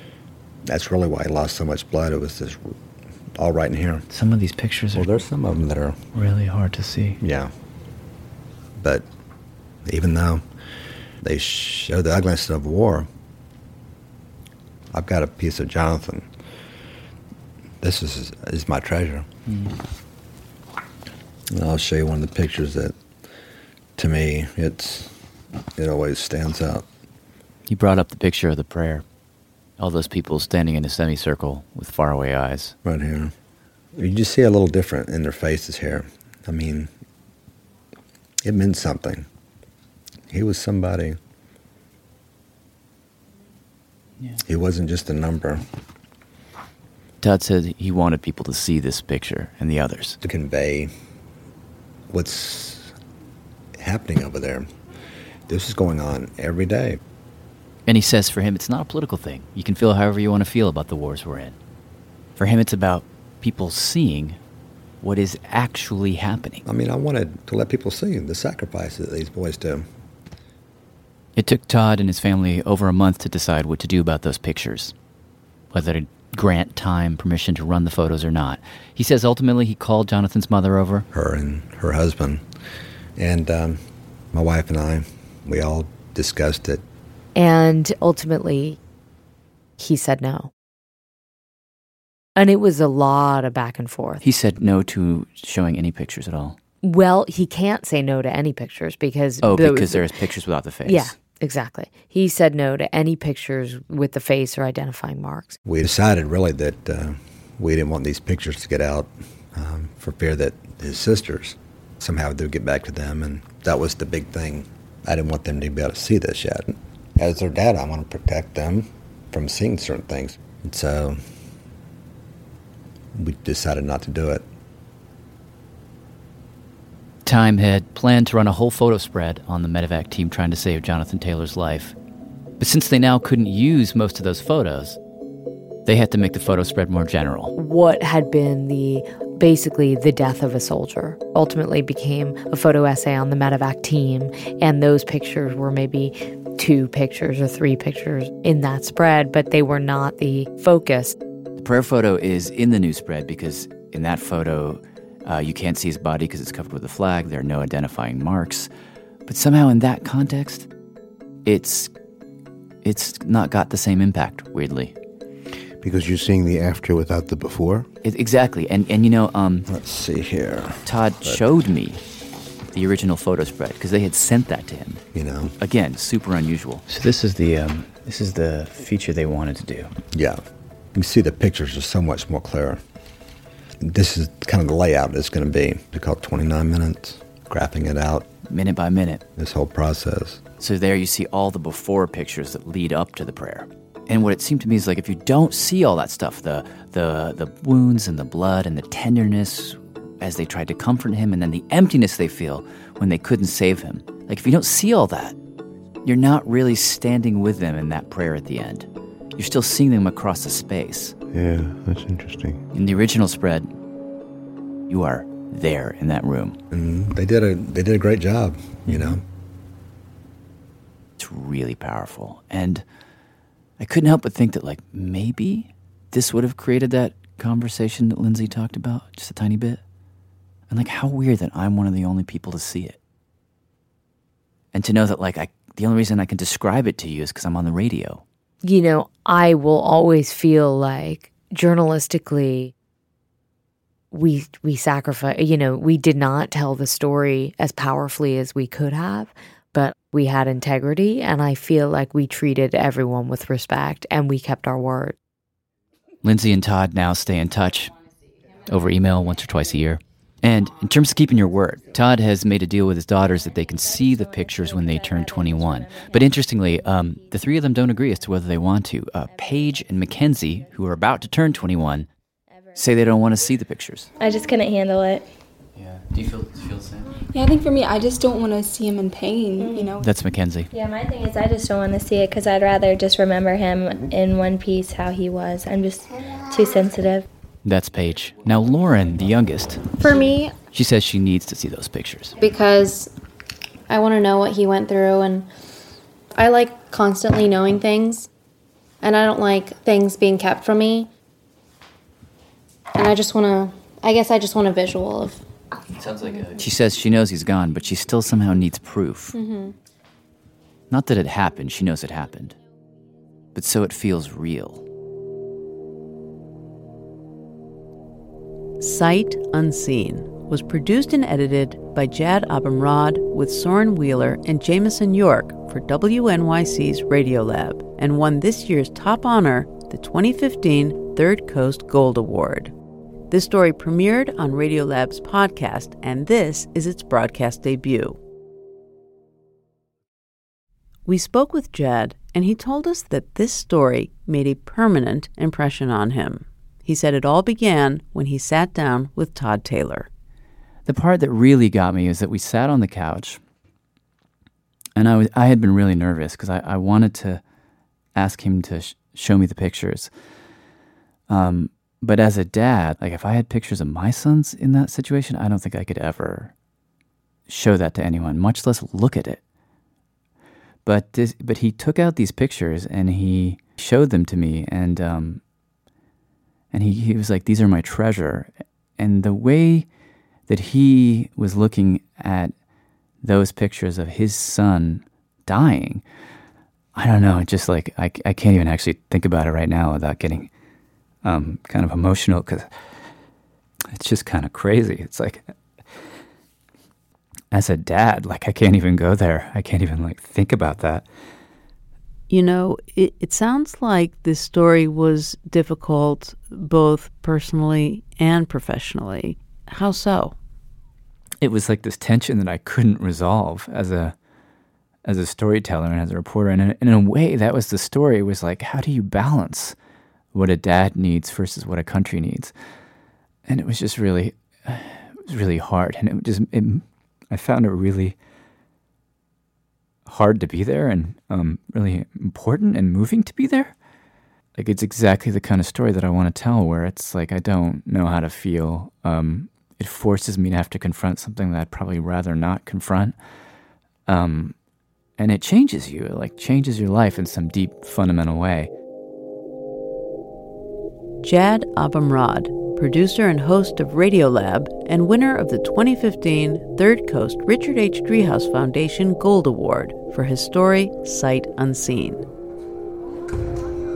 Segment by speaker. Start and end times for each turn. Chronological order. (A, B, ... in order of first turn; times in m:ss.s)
0:00.6-0:02.8 A
0:03.4-0:04.0 A
0:04.1-0:05.2 B
0:04.9-0:06.0 A
0:06.1-0:07.2 B
0:07.2-0:07.5 A
0:08.8-0:09.0 A
0:09.8-0:10.4 A
0:11.2-0:13.1 A
0:14.9-0:16.3 A
0:17.8-0:19.2 A
0:19.5-0:19.7 B
0:21.5-0:22.9 A
0:24.0-0:25.1 A
0:25.8-0:26.8 A
0:27.7-0:29.0 B
0:29.8-0:32.7 B
0:32.8-0:33.3 A
0:33.9-0:36.9 A
0:38.4-0:39.2 A
0:40.3-0:41.2 A
0:44.4-0:45.6 A
0:47.2-0:50.2 B
0:50.2-0:50.9 A
0:52.1-0:52.9 A
0:53.8-0:54.7 A
0:55.5-0:57.0 A
0:57.8-1:01.6 B
1:02.4-1:04.4 B
1:05.0-1:06.6 B
1:06.6-1:09.9 A
1:11.4-1:14.9 B
1:15.7-1:21.0 B
1:21.1-1:22.4 A
1:23.2-1:23.8 A
1:24.3-1:26.8 A
1:27.3-1:28.8 C
1:29.8-1:30.5 C
1:32.4-1:34.2 C
1:34.2-1:36.6 B
1:36.8-1:40.1 C
1:39.4-1:41.1 B
1:40.8-1:45.6 C
1:45.6-2:01.2 A
2:03.1-2:04.4 A
2:07.2-2:11.9 B
2:12.6-2:15.0 B
2:15.8-2:17.5 B
2:17.6-2:31.2 C
2:31.6-2:38.7 B
2:39.3-2:40.7 B
2:41.4-2:41.9 B
2:42.8-2:44.9 B
2:45.8-2:47.9 D
2:48.0-2:49.6 B
2:49.7-2:51.4 A
2:50.8-2:52.0 B
2:52.7-2:55.0 B
2:55.1-2:55.5 A
2:55.6-2:59.9 B
3:00.1-3:00.4 A
3:00.9-3:02.8 A
3:03.8-3:08.2 A
3:08.5-3:09.2 B
3:09.4-3:10.4 A
3:10.6-3:25.3 B
3:26.0-3:28.8 B
3:29.4-3:31.1 B
3:31.3-3:32.6 D
3:32.7-3:33.7 B
3:34.9-3:36.6 B
3:36.7-3:39.2 A
3:38.8-3:39.2 B
3:41.2-3:42.8 B
3:43.8-3:49.8 B
3:50.7-3:53.0 B
3:54.7-3:58.2 B
3:58.6-4:02.7 C
4:04.1-4:15.2 C
4:16.2-4:17.9 B
4:18.6-4:32.1 B
4:24.2-4:26.5 E
4:32.8-4:34.1 B
4:34.2-4:35.3 E
4:35.7-4:37.2 B
4:37.3-4:40.1 F
4:39.6-4:40.0 E
4:40.0-4:40.7 B
4:40.7-4:47.2 E
4:47.6-4:50.1 B
4:50.0-4:50.5 G
4:50.1-4:50.4 E
4:50.7-4:52.4 B
4:52.4-4:53.1 G
4:53.9-4:55.5 G
4:56.3-4:58.3 G
4:59.0-5:01.1 G
5:02.9-5:05.4 G
5:06.0-5:09.3 B
5:09.3-5:09.7 G
5:10.9-5:12.6 B
5:13.5-5:14.8 B
5:18.8-5:32.7 H
5:33.3-5:38.2 H
5:41.0-5:50.1 H
5:50.8-5:53.4 B
5:55.0-5:57.4 B
5:58.1-6:00.1 B
6:01.3-6:06.5 B
6:07.5-6:09.4 B
6:10.8-6:15.4 B
6:16.7-6:19.9 B
6:20.5-6:22.5 B
6:23.2-6:26.0 B
6:26.9-6:30.5 B
6:31.2-6:32.7 B
6:33.9-6:35.5 B
6:37.5-6:41.0 B
6:42.3-6:50.4 H
6:51.4-6:54.1 B
6:55.0-6:59.8 B
7:00.3-7:02.5 B
7:03.4-7:08.2 B
7:10.0-7:13.7 B
7:14.6-7:23.2 B
7:24.1-7:24.5 B
7:25.2-7:28.7 B
7:31.2-7:42.3 H